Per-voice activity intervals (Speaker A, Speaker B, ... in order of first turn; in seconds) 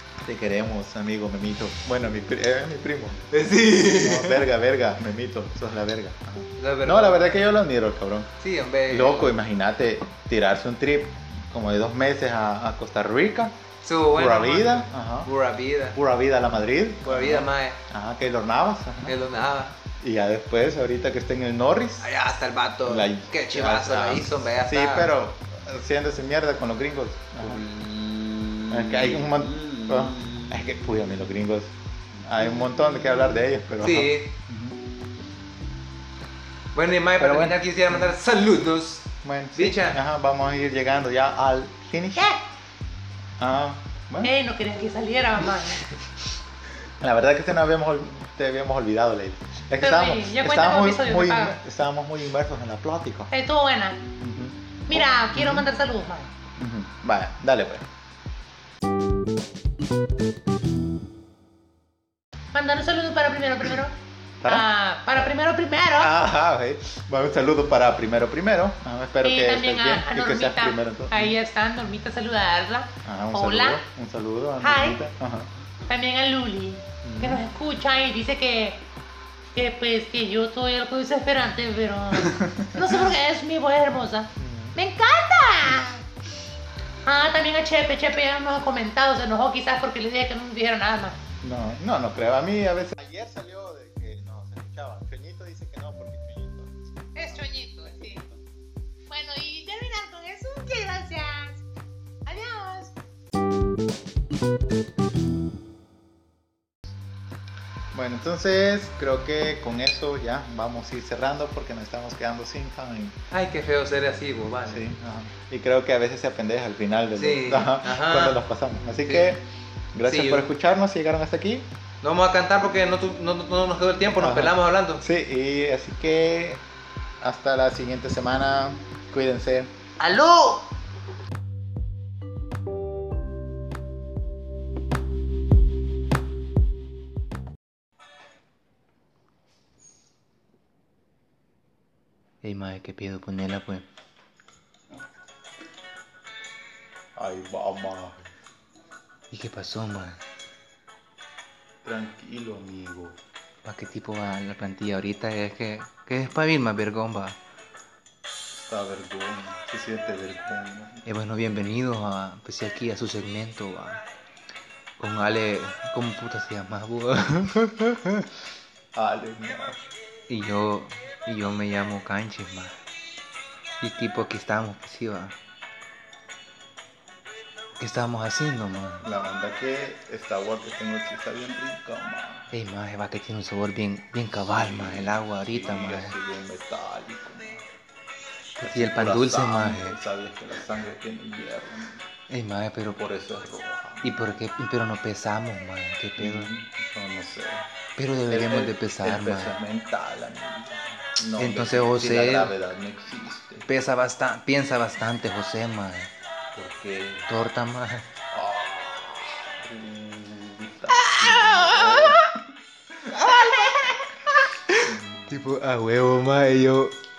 Speaker A: 0.2-8.3, 8.9-13.5, 14.1-15.3, 15.9-19.2, 20.0-22.1, 22.9-27.6, 28.7-34.8, 37.2-38.2, 39.2-42.4, 43.4-44.3, 47.0-53.3, 54.2-55.7, 56.6-57.9, 64.4-64.7, 66.0-71.4, 73.0-75.5, 77.0-77.4, 82.2-83.0, 84.4-84.8, 91.4-97.5, 107.9-113.2, 114.7-119.4, 120.0-121.7, 124.2-126.6, 127.2-129.7, 147.2-148.3, 151.8-153.2, 158.5-161.0, 168.9-169.8, 179.0-182.5, 184.5-187.7, 188.6-192.1, 192.9-194.1, 196.2-197.7, 198.3-203.7, 206.6-207.3, 208.3-212.4, 213.0-213.4, 214.8-215.4
Speaker B: 3.3-4.5, 6.6-7.4, 8.4-9.3, 13.8-16.0, 17.1-17.8, 19.1-19.8, 22.0-25.1, 27.4-30.6, 33.8-34.3, 36.8-40.0, 113.3-114.8, 117.2-118.4, 119.0-119.4, 120.0-120.5, 122.0-125.0, 130.0-130.6, 142.4-143.8, 149.3-150.2, 153.6-157.4, 161.1-164.0, 165.0-168.3, 170.3-172.8, 173.8-175.3, 177.8-179.1, 182.5-186.2, 188.6-190.0, 192.3-193.0, 194.0-196.5, 198.0-199.6, 201.4-202.5, 203.7-206.1, 207.3-208.1, 210.9-212.2, 213.1-217.0
Speaker C: 44.2-45.9, 49.8-51.6, 53.3-54.0, 54.9-56.3, 62.5-63.9, 64.5-66.1, 69.2-73.8, 74.6-75.0, 75.9-78.8, 79.5-86.0, 87.0-91.2, 97.2-98.2, 99.1-101.6, 102.3-103.0